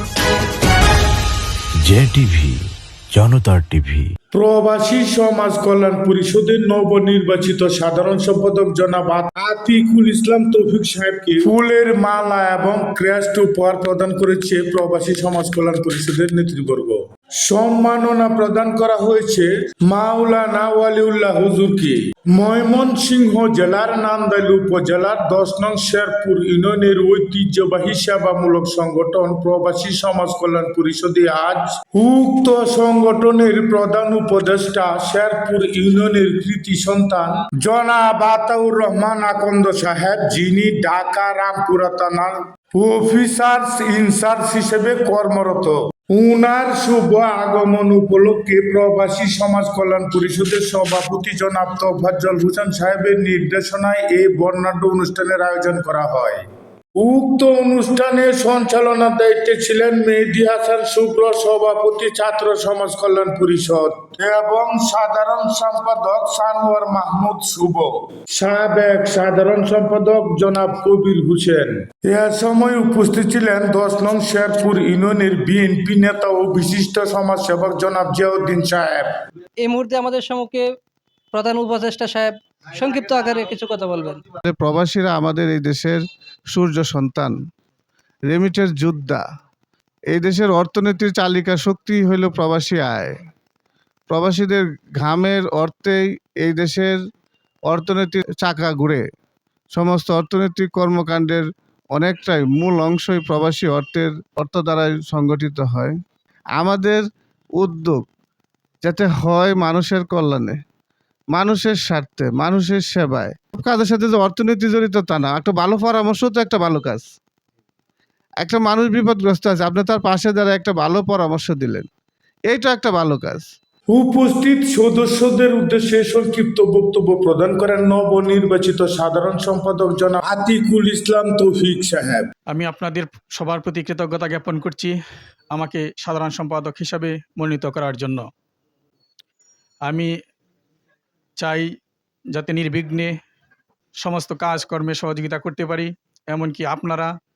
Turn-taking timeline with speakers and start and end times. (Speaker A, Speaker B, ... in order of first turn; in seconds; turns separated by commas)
Speaker A: 1.8-4.1, Speaker B: 4.3-56.4, Speaker B: 57.0-79.1, Speaker C: 79.6-80.7, Speaker C: 81.3-84.3, Speaker D: 84.5-86.0, Speaker D: 86.5-87.3, Speaker D: 88.3-89.2, Speaker D: 90.1-93.2, Speaker D: 94.1-97.0, Speaker D: 97.7-99.0, Speaker D: 99.7-106.0, Speaker D: 106.6-107.0, Speaker D: 107.6-108.0, Speaker D: 108.8-110.6, Speaker D: 111.3-117.1, Speaker D: 118.4-121.9, Speaker D: 122.5-123.5, Speaker B: 123.9-132.3, Speaker E: 132.5-134.9, Speaker E: 135.5-138.3, Speaker E: 141.4-141.7, Speaker E: 142.3-143.1, Speaker E: 144.0-147.1